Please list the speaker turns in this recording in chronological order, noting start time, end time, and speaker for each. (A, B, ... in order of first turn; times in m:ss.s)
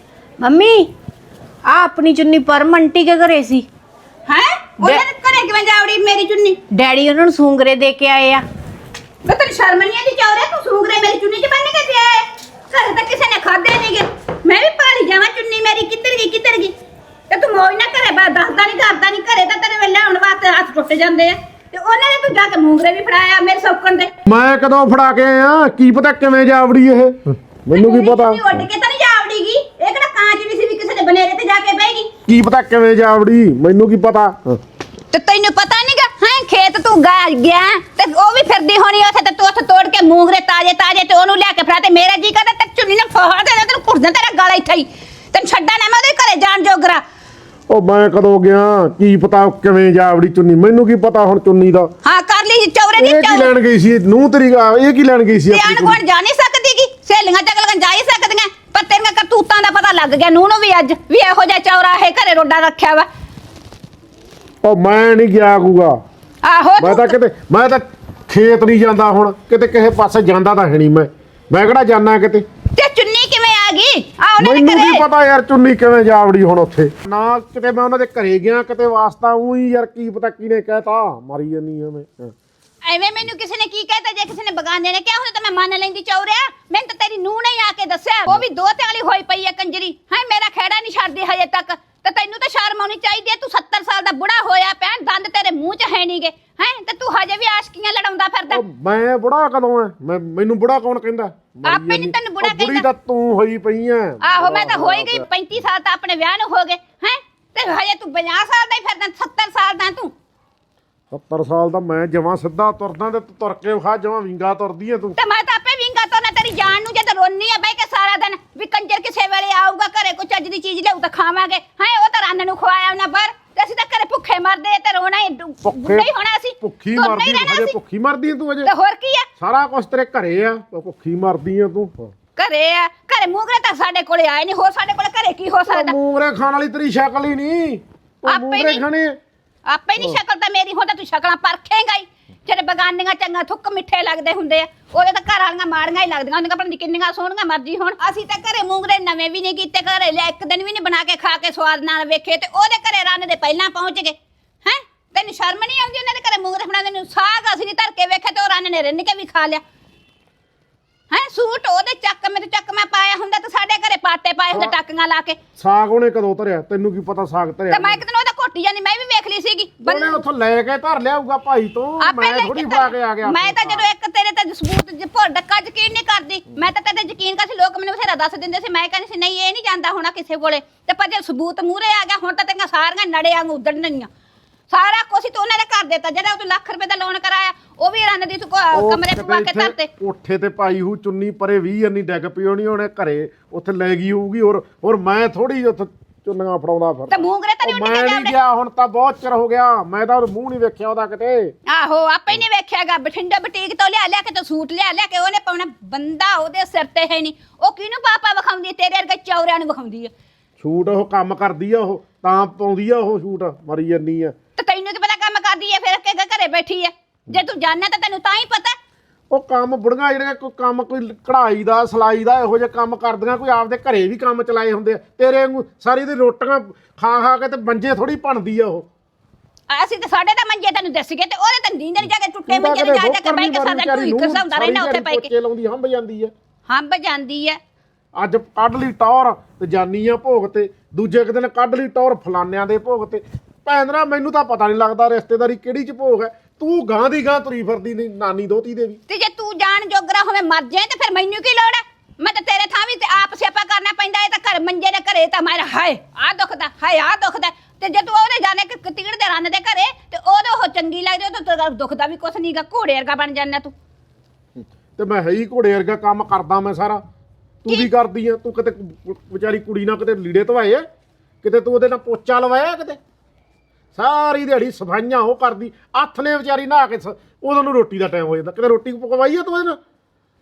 0:00.4-0:00.9 A
0:01.6-0:03.6 A
0:04.3-0:06.6 B
0:06.7-0:08.4 A
0:09.2-0:16.7 B
0:17.3-0:24.1 B
0:24.2-0:28.4 C
0:27.7-0:32.1 B
0:32.3-0:34.6 C
0:35.1-0:47.0 B
0:47.7-0:51.9 C
0:52.0-0:53.5 B
0:53.0-0:56.0 C
0:55.5-1:03.1 B
1:04.6-1:05.9 C
1:06.4-1:07.1 B
1:06.8-1:12.4 C
1:12.8-1:15.0 B
1:14.4-1:22.3 C
1:22.8-1:38.6 B
1:38.5-1:45.2 C
1:41.6-1:42.8 B
1:44.2-1:50.1 B
1:51.1-1:55.2 C
1:55.2-2:07.8 B
2:05.6-2:06.1 C
2:06.6-2:08.7 C
2:08.6-2:09.2 B
2:09.4-2:12.1 C
2:12.4-2:15.9 B
2:15.7-2:19.1 C
2:18.3-2:18.8 B
2:19.7-2:39.6 B
2:41.1-2:45.4 B
2:45.6-2:48.0 C
2:47.7-2:50.2 B
2:49.8-2:53.9 C
2:52.0-3:04.1 B
3:04.7-3:09.9 B
3:08.7-3:21.5 C
3:17.1-3:18.3 B
3:21.7-3:30.1 B
3:30.6-3:34.3 C
3:34.6-3:38.8 B
3:39.3-3:48.8 C
3:49.7-3:55.3 B
3:52.5-3:56.3 C
3:56.7-3:57.6 B
3:58.2-4:09.0 C
4:09.1-4:23.7 B
4:24.6-4:27.0 C
4:27.6-4:30.8 C
4:31.4-4:33.0 C
4:33.9-4:39.8 C